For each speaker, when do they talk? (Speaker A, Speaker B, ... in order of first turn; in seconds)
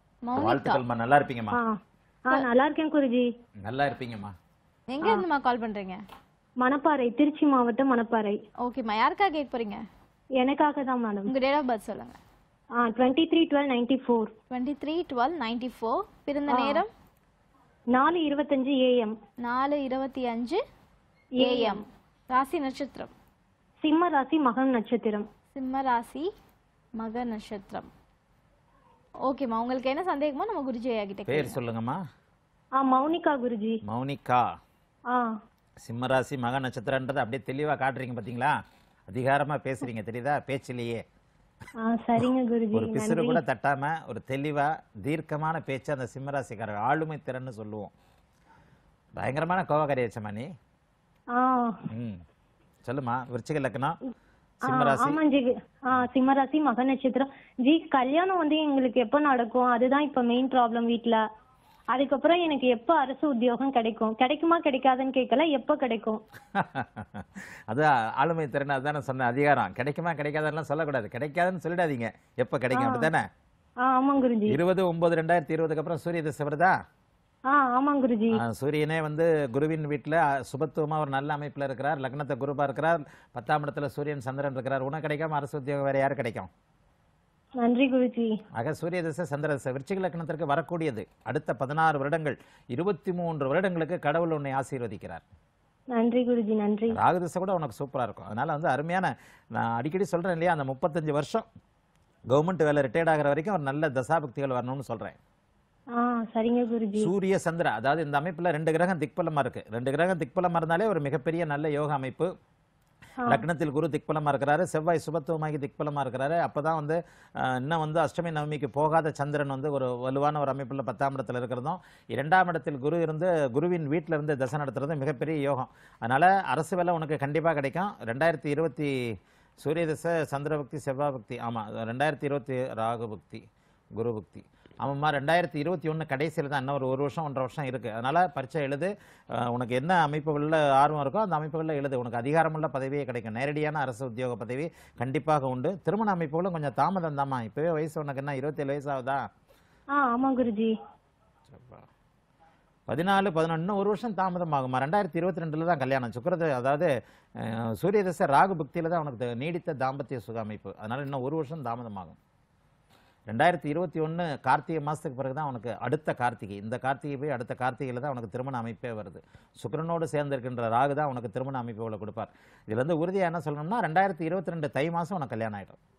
Speaker A: 0.2-0.8, 4.9-6.0, 8.6-9.8, 11.2-12.2, 14.5-16.9, 19.4-20.6, 21.4-23.1, 25.5-26.3, 27.0-27.9, 29.3-31.6
Speaker B: 0.3-1.6, 3.6-4.3, 31.3-32.0, 33.9-34.5, 35.8-41.0, 42.7-47.9, 49.2-50.5, 51.9-52.2, 52.8-54.0, 54.7-55.2, 66.5-73.2, 74.5-76.8, 78.4-86.5, 88.5-95.2, 96.9-101.5, 102.3-105.2, 107.0-112.3, 113.3-128.9, 129.6-149.3, 151.5-151.9, 152.9-162.2, 163.3-175.8
Speaker C: 2.3-3.3, 6.6-8.4, 10.4-11.3, 12.8-14.3, 16.5-16.8, 17.9-19.1, 21.4-21.8, 23.8-25.3, 32.8-33.8, 35.1-35.3, 41.8-43.4, 51.3-51.8, 54.7-61.2, 61.9-66.2, 72.7-73.1, 73.8-74.6, 77.5-78.4, 87.6-88.3, 95.9-97.0, 106.0-107.1, 150.0-150.7